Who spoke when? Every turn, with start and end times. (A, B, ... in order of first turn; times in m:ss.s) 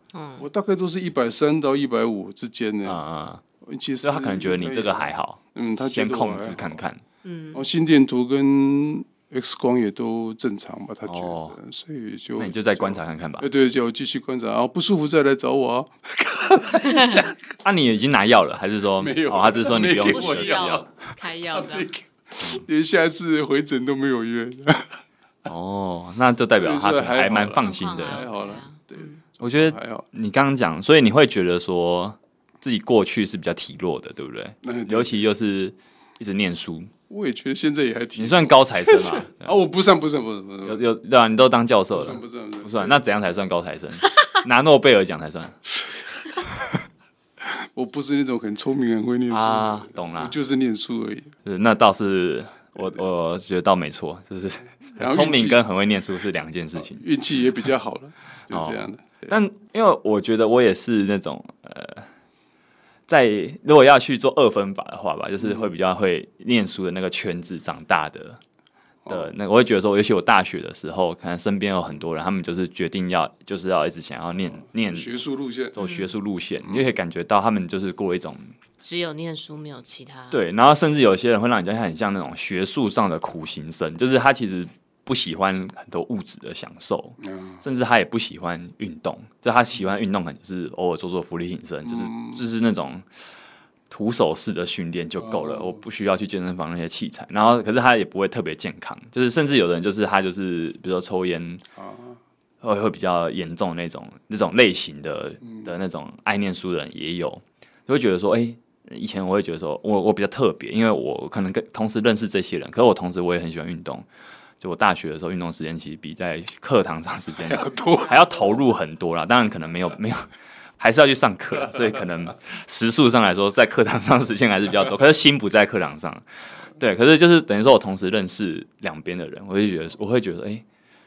0:00.1-0:00.4 A
0:00.4-0:03.0 B
0:02.8-0:03.4 C
0:03.6-0:06.8 B
0:04.0-0:07.0 C
0:07.2-0:07.6 A
0:07.5-0:17.4 B
0:11.0-0:11.6 C
0:12.4-0:13.5 C
0:16.8-0:17.2 A
0:17.6-0:20.9 C
0:19.0-0:20.9 B
0:20.0-0:21.9 A
0:21.5-0:25.0 B
0:25.4-0:28.2 C
0:26.5-0:30.0 B
0:27.6-0:29.2 A
0:29.4-0:36.9 C
0:34.6-0:35.2 B
0:37.1-0:40.8 B
0:38.2-0:39.6 C
0:40.7-0:45.6 C
0:41.9-0:43.0 B
0:47.4-0:51.3 B
0:49.3-0:50.3 C
0:51.4-0:57.0 C
0:55.0-0:55.6 B
0:56.8-0:59.4 B
0:58.5-1:02.1 C
1:03.1-1:08.4 C
1:05.4-1:05.7 B
1:09.0-1:09.3 B
1:09.1-1:15.1 C
1:14.7-1:15.7 B
1:15.7-1:18.5 C
1:15.8-1:16.1 A
1:18.8-1:20.4 A
1:20.3-1:33.0 C
1:27.2-1:27.6 B
1:31.8-1:32.4 B
1:33.9-1:41.6 C
1:35.2-1:35.8 B
1:41.8-1:42.2 B
1:42.6-1:54.0 C
1:45.4-1:45.7 B
1:54.6-2:00.3 C
1:57.4-1:58.2 B
2:00.8-2:06.2 C
2:06.8-2:10.6 C